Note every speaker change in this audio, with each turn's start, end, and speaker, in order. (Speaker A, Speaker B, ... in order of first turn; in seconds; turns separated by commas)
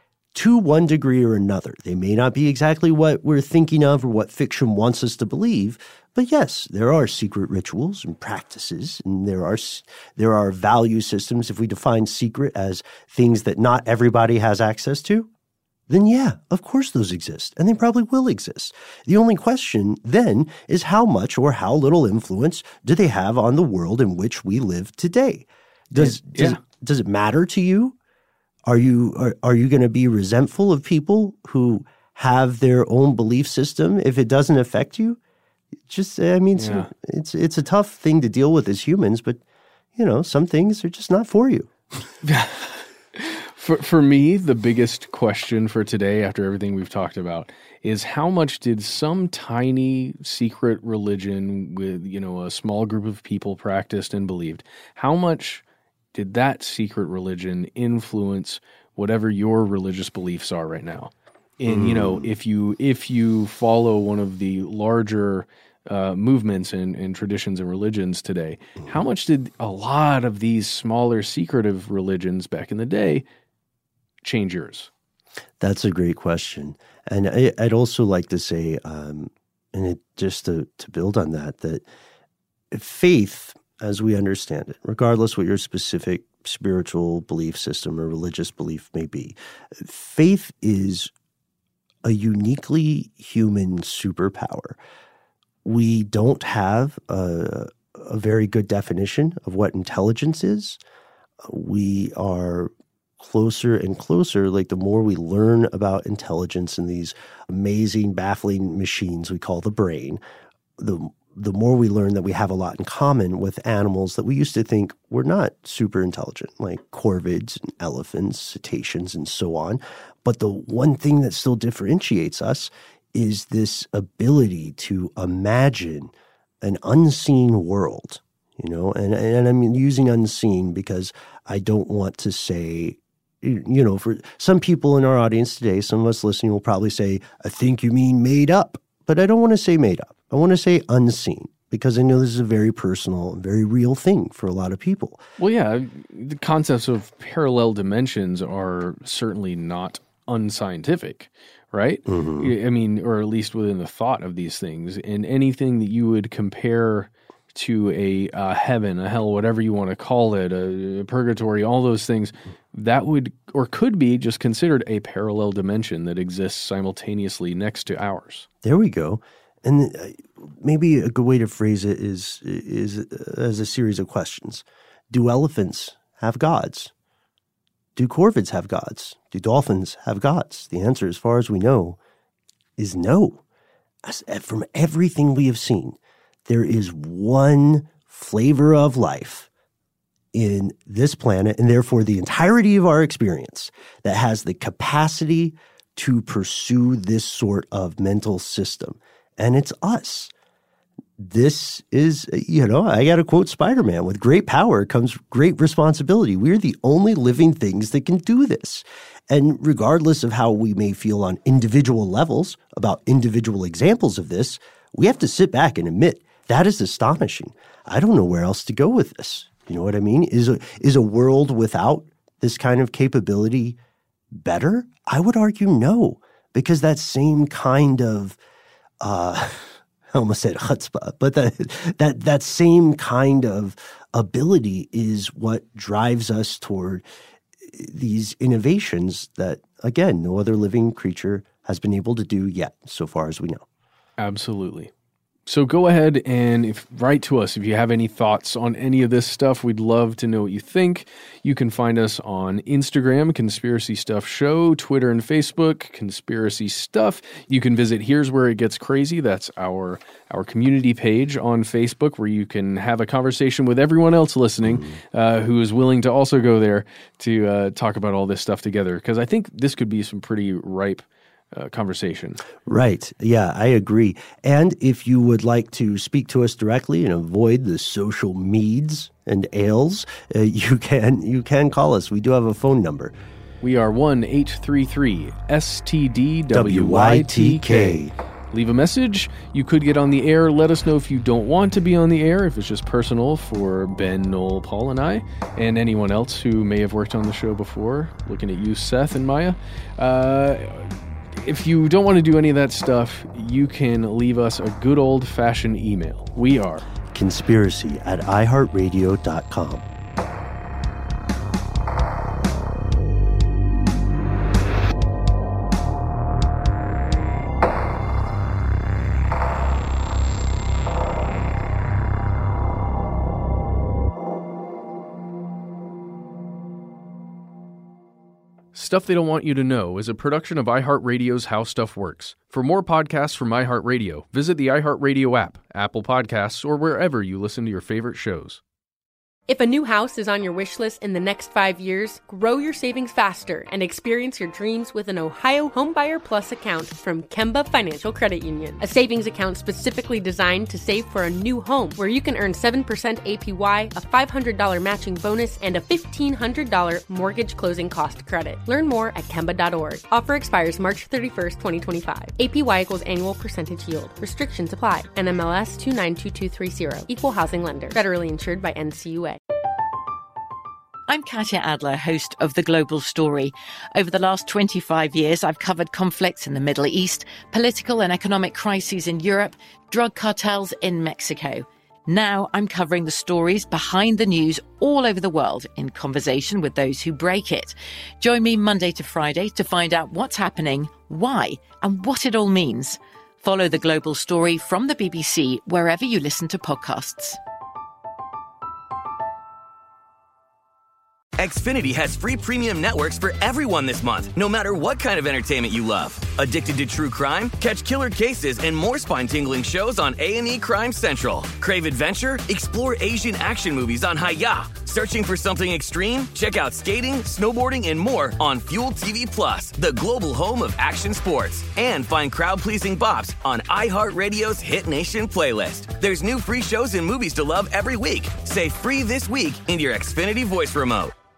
Speaker A: 0.3-15.3, Speaker A: 15.9-27.9, Speaker B: 26.0-26.6, Speaker A: 28.6-35.2, Speaker A: 35.9-39.4, Speaker B: 36.6-36.9, Speaker A: 40.0-41.7, Speaker B: 42.2-55.6, Speaker B: 56.1-73.2, Speaker A: 61.7-62.3, Speaker B: 74.2-74.9, Speaker A: 75.6-81.8, Speaker A: 82.7-91.1, Speaker A: 92.0-94.8, Speaker A: 95.6-100.8, Speaker A: 101.4-110.2, Speaker A: 110.8-145.2, Speaker B: 145.4-168.5, Speaker A: 152.1-152.5, Speaker A: 168.6-176.9, Speaker A: 177.9-182.0, Speaker A: 182.8-183.4, Speaker A: 184.0-189.5, Speaker A: 190.3-200.3, Speaker A: 201.2-223.8, Speaker A: 224.3-228.4, Speaker A: 229.0-237.0, Speaker A: 237.7-243.6, Speaker B: 244.2-244.9, Speaker B: 245.5-272.4, Speaker A: 264.6-264.9, Speaker A: 272.6-283.1, Speaker B: 283.6-288.0, Speaker A: 286.5-288.1, Speaker B: 288.5-306.8, Speaker A: 307.1-309.9, Speaker B: 328.7-338.6, Speaker C: 339.5-369.4, Speaker D: 371.1-397.4, Speaker E: 401.4-431.1